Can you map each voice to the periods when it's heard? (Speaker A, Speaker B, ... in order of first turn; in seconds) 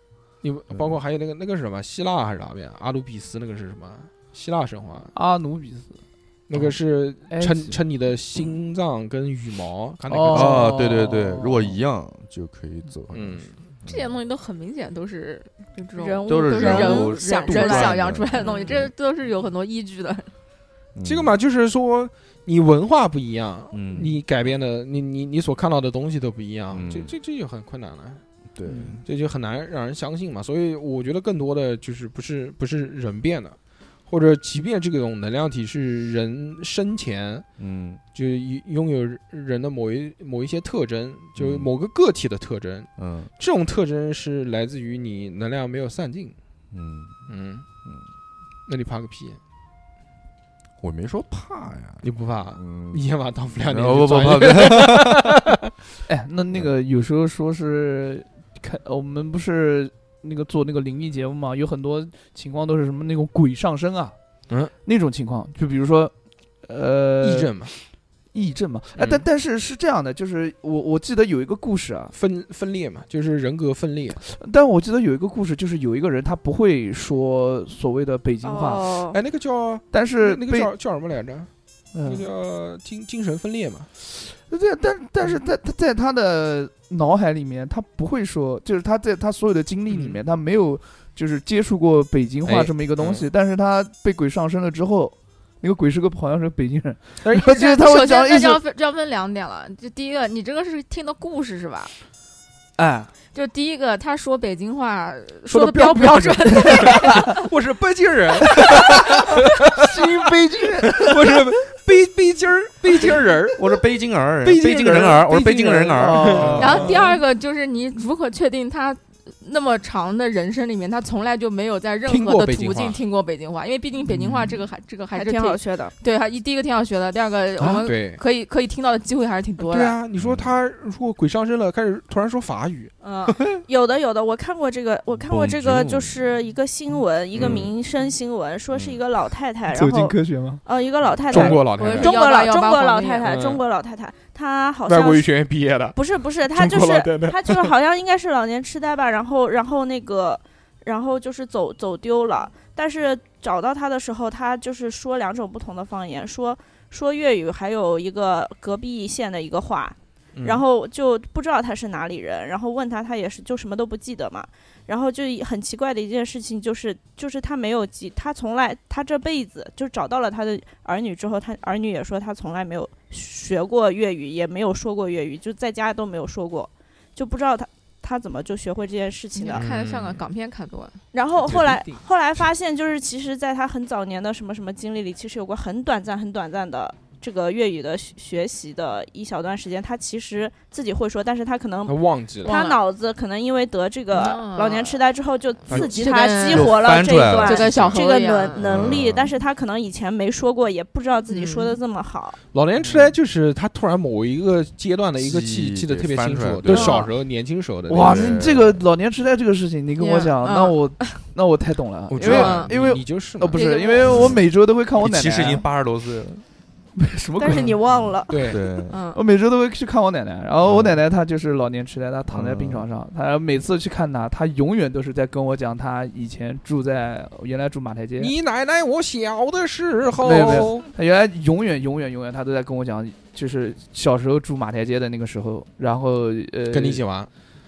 Speaker A: 0.4-5.1, 6.5-10.8, 13.1-13.5, 21.0-28.2, 29.0-33.5, 34.1-37.5, 38.1-46.3, 47.3-47.6, 48.7-49.4, 52.0-55.5, 67.2-67.7, 69.0-69.2, 72.1-74.2, 79.1-83.9, 89.9-90.2, 92.4-93.3, 97.2-97.6, 105.5-109.3, 109.9-110.3, 110.8-113.6, 114.4-117.0, 122.1-123.0, 127.8-128.2, 129.6-132.9, 137.3-137.6, 141.3-142.2, 143.2-143.6, 144.9-146.0, 146.5-147.7, 160.3-160.6, 179.5-180.2, 181.4-182.0, 191.9-192.5, 195.7-196.0, 202.5-208.4, 212.1-213.6, 218.3-218.6, 228.2-230.8, 236.7-237.3
Speaker B: 5.1-6.0, 7.3-7.8, 10.1-11.8, 28.6-29.0, 56.1-64.1, 64.8-67.7, 68.3-72.1, 74.2-78.9, 79.9-80.7, 81.9-82.2, 84.1-98.6, 102.8-103.1, 106.7-107.0, 108.6-111.5, 116.0-117.1, 124.1-124.6, 139.7-140.6, 141.3-141.6, 207.9-215.6, 216.9-217.8, 219.1-228.3, 230.2-237.0
Speaker C: 10.3-14.1, 16.2-18.9, 20.9-21.3, 23.7-24.1, 26.7-27.1, 28.5-29.0, 37.6-38.0, 41.4-41.7, 43.0-43.3, 46.7-47.2, 50.8-53.0, 53.6-55.2, 113.5-117.0, 130.1-130.5, 135.2-136.2, 137.3-137.7, 138.7-139.0, 196.5-198.0, 198.6-199.4, 205.2-206.9, 208.0-208.8, 212.3-212.5, 214.1-214.4, 215.0-216.4, 218.5-219.0, 220.6-221.0, 222.3-222.9
Speaker D: 13.8-20.3, 97.5-101.9, 103.3-107.3, 116.6-129.9, 133.0-133.4, 141.7-143.3, 179.3-181.0, 192.4-192.8, 194.1-195.0, 195.7-198.6, 201.3-201.8, 206.6-207.1, 210.0-211.2, 212.2-212.7, 213.5-214.1, 218.9-219.2
Speaker E: 15.9-18.8, 78.4-79.2, 125.1-125.9, 133.7-145.3, 145.9-179.7, 181.1-202.4, 217.4-218.6